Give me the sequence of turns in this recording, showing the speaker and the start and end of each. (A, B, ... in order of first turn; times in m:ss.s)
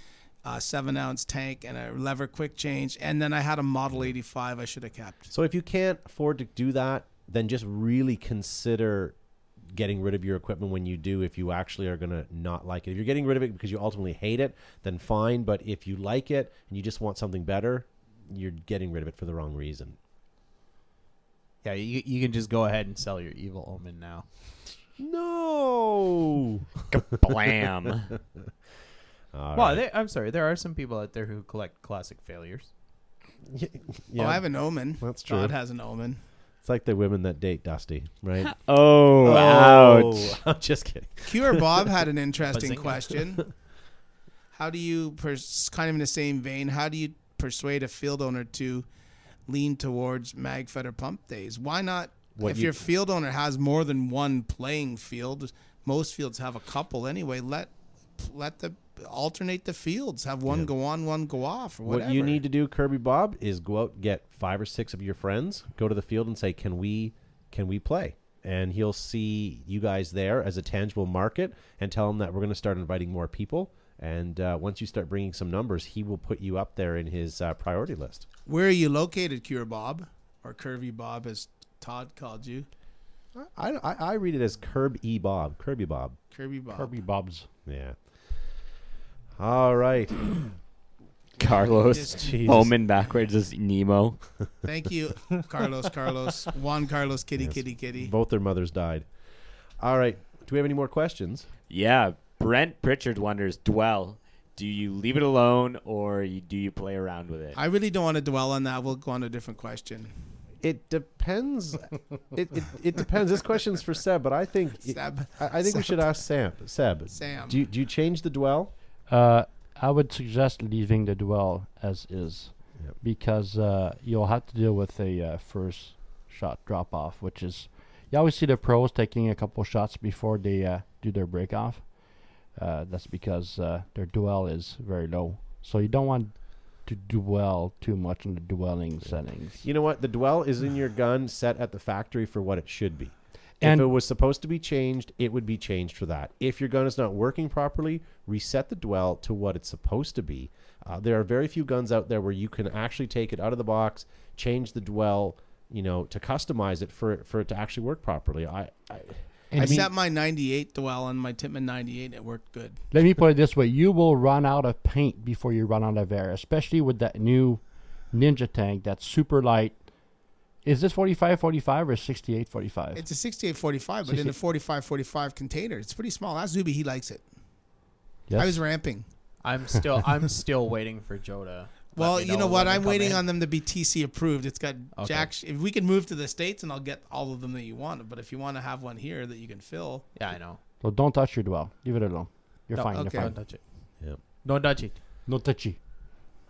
0:00.4-0:05.3 A
0:05.3-0:09.2 B
0:09.7-0:20.0 B
0:21.6-0:24.2 C
0:25.0-0:28.5 B
0:26.9-0:28.1 D
0:29.3-0:29.8 B
0:29.5-0:32.7 C
0:33.5-0:34.4 B
0:34.2-0:36.2 A
0:35.0-0:35.5 B
0:36.6-0:38.5 B
0:38.4-0:40.4 D
0:39.2-0:41.9 B
0:41.2-0:43.5 A
0:42.5-0:43.0 C
0:44.5-0:48.9 A
0:49.5-1:02.4 A
0:52.4-0:52.9 B
1:01.8-1:18.2 B
1:18.4-1:22.7 A
1:23.4-1:26.2 B
1:26.3-1:26.9 A
1:26.7-1:27.5 E
1:27.6-1:28.0 B
1:29.4-1:30.3 B
1:31.4-1:34.2 D
1:31.8-1:32.7 A
1:32.2-1:32.6 B
1:34.6-1:38.1 A
1:37.4-1:39.1 B
1:39.8-1:41.5 B
1:41.7-1:47.6 D
1:47.5-1:50.1 A
1:50.6-1:58.7 B
1:54.8-1:56.1 A
1:57.1-1:57.6 A
1:59.1-2:19.6 E
2:19.0-2:39.9 B
2:23.6-2:23.9 E
2:39.5-2:39.9 E
2:39.6-2:42.8 A
2:42.9-2:49.9 E
2:50.6-2:53.0 E
2:52.9-2:57.2 A
2:54.0-2:54.4 E
2:58.3-2:58.6 E
2:58.4-2:59.0 A
2:59.4-3:03.2 C
3:01.9-3:10.1 A
3:04.9-3:05.3 C
3:10.1-3:10.6 C
3:10.8-3:13.4 E
3:12.7-3:13.6 C
3:12.9-3:13.3 A
3:14.4-3:15.0 C
3:15.2-3:15.8 E